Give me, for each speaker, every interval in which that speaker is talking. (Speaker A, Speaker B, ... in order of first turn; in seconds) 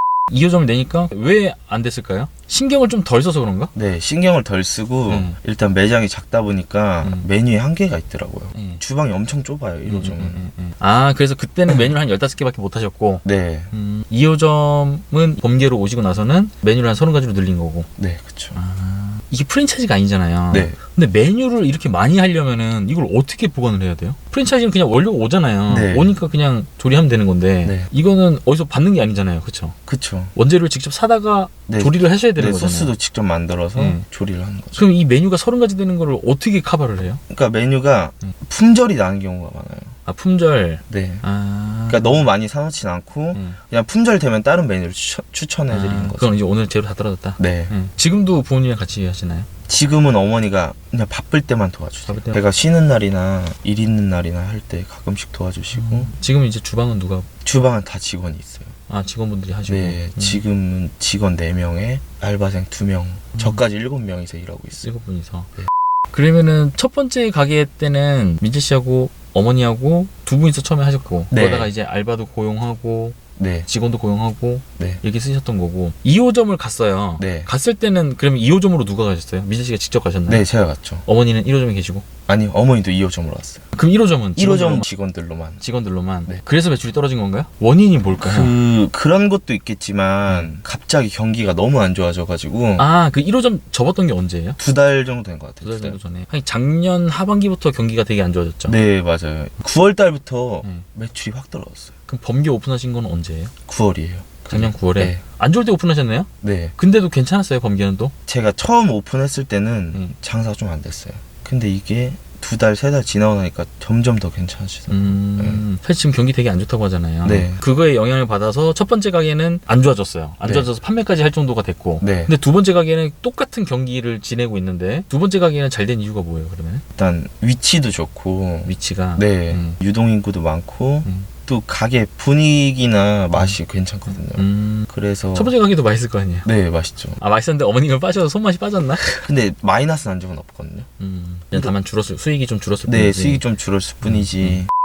Speaker A: 0.3-3.7, 5.1-5.4, 7.0-7.3, 8.5-8.8, 9.8-17.9, 18.5-29.8, 30.3-32.9, 33.8-34.0, 34.8-37.2, 40.0-42.2, 43.3-43.6, 45.7-49.5, 52.1-52.4, 55.7-57.3, 58.9-60.4, 64.8-65.5, 66.1-80.5, 81.0-82.0, 83.7-84.9, 85.6-88.5, 92.8-94.6, 95.6-98.8, 102.1-103.5, 104.5-108.1, 114.9-126.8, 128.6-129.8, 133.3-136.5, 137.2-139.1, 141.0-143.4, 144.0-144.6
Speaker B: 3.7-10.5, 13.2-13.7, 18.0-18.6, 20.5-20.8, 25.7-26.1, 27.6-27.9, 29.9-30.3, 31.7-34.8, 37.3-40.0, 40.9-41.2, 41.9-46.4, 47.4-47.7, 49.7-56.1, 57.4-58.7, 59.6-64.9, 71.3-71.7, 73.4-73.7, 77.2-77.5, 80.3-81.0, 82.3-83.7, 84.3-85.6, 88.2-92.9, 94.6-96.0, 98.7-101.9, 103.7-105.2, 106.4-106.7, 108.3-115.6, 117.2-117.6, 120.4-120.7, 122.0-122.3, 127.0-135.5, 136.4-137.2, 139.2-140.9, 142.8-144.7